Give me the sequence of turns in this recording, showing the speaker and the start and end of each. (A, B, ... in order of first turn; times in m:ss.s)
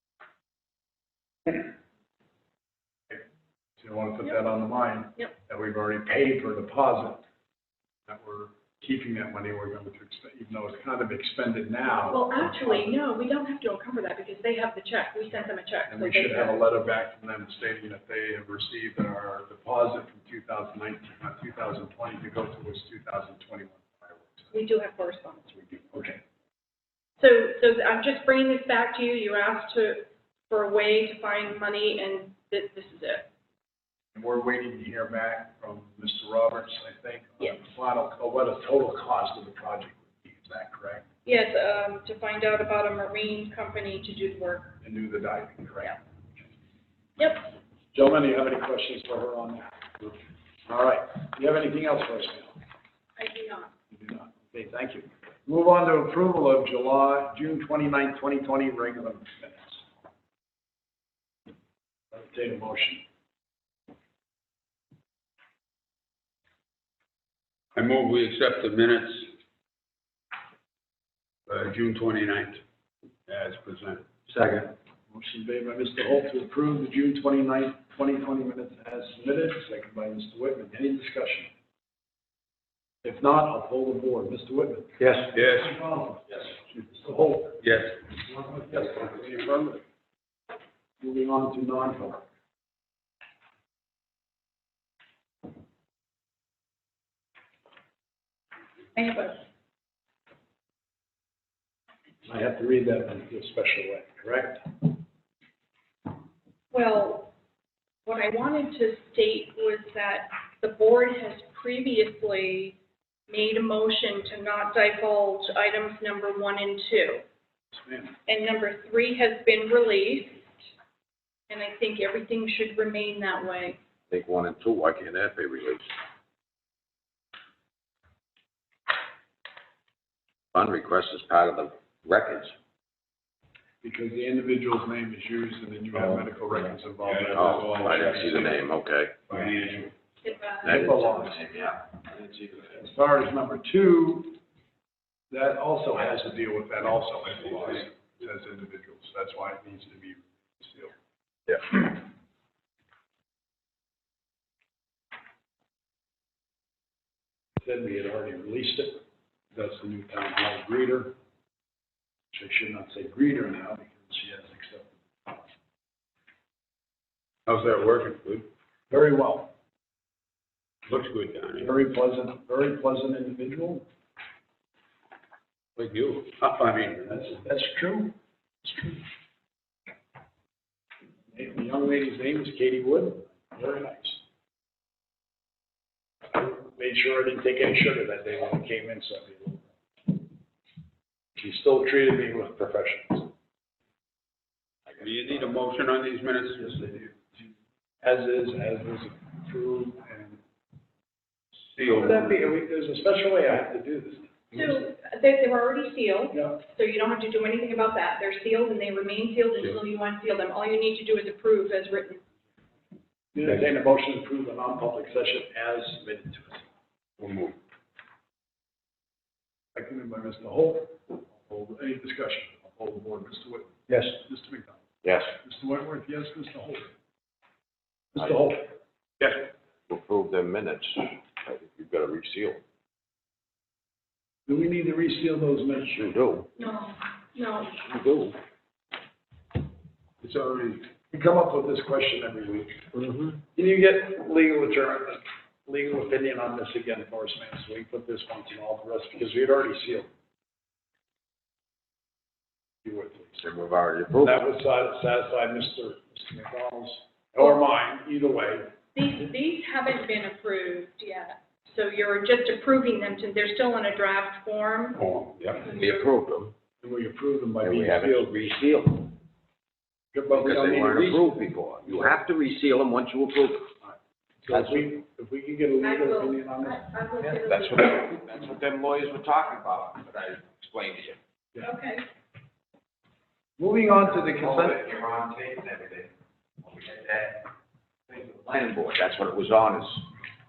0:03.8-0:07.2 A
0:08.1-0:13.0 A
0:12.0-0:16.6 B
0:15.9-0:24.5 A
0:24.5-0:25.9 B
0:25.7-0:26.2 A
0:27.2-0:33.3 B
0:34.1-0:41.0 A
0:41.2-0:44.8 B
0:44.8-0:46.0 A
0:47.2-0:47.5 B
0:47.9-0:52.6 A
0:53.2-0:53.7 B
0:53.9-0:59.8 A
1:02.1-1:03.0 A
1:07.7-1:09.3 C
1:11.5-1:12.6 C
1:13.3-1:14.1 C
1:14.4-1:21.5 A
1:23.0-1:29.8 A
1:25.3-1:25.8 C
1:27.6-1:28.0 C
1:29.1-1:29.5 C
1:31.0-1:32.2 A
1:38.9-1:39.4 B
1:42.2-1:44.8 A
1:46.7-1:47.3 B
1:48.0-1:52.8 B
1:53.3-1:57.2 B
1:57.7-1:58.2 A
1:58.3-2:00.5 B
2:01.5-2:03.8 B
2:04.1-2:05.9 D
2:10.5-2:12.5 D
2:13.8-2:18.5 A
2:17.0-2:18.5 C
2:17.3-2:19.2 D
2:19.3-2:19.9 C
2:20.2-2:21.2 B
2:20.6-2:22.7 D
2:20.6-2:21.4 A
2:22.7-2:24.4 A
2:25.3-2:30.9 A
2:37.6-2:41.1 A
2:42.3-2:45.4 A
2:47.5-2:48.4 C
2:48.9-2:49.5 A
2:50.8-2:51.7 C
2:51.6-2:53.8 A
2:55.8-2:57.3 C
2:57.0-2:59.0 A
3:01.3-3:04.2 A
3:06.3-3:10.1 A
3:11.4-3:13.3 A
3:15.0-3:17.0 C
3:16.6-3:17.4 A
3:18.0-3:20.4 A
3:21.6-3:22.5 C
3:21.9-3:24.3 A
3:24.5-3:32.2 B
3:33.3-3:36.7 A
3:37.2-3:37.6 C
3:39.7-3:44.8 A
3:45.0-3:45.3 D
3:45.3-3:46.9 A
3:48.1-3:49.3 A
3:49.9-3:52.6 D
3:54.4-3:56.0 A
3:55.9-3:56.5 D
3:56.6-3:57.8 B
3:57.7-3:58.4 D
4:00.2-4:00.8 C
4:01.0-4:02.8 A
4:02.9-4:03.4 D
4:03.5-4:10.1 A
4:12.8-4:13.4 A
4:13.4-4:14.3 D
4:14.2-4:18.7 A
4:18.9-4:25.0 B
4:25.0-4:25.6 C
4:25.6-4:26.1 B
4:25.7-4:26.5 D
4:26.8-4:28.4 A
4:27.6-4:29.1 D
4:30.1-4:32.1 A
4:30.3-4:33.7 D
4:33.8-4:36.9 A
4:34.5-4:34.9 D
4:35.8-4:38.0 B
4:37.2-4:41.2 D
4:41.6-4:42.0 B
4:43.6-4:44.8 A
4:43.9-4:47.5 D
4:48.1-4:50.1 D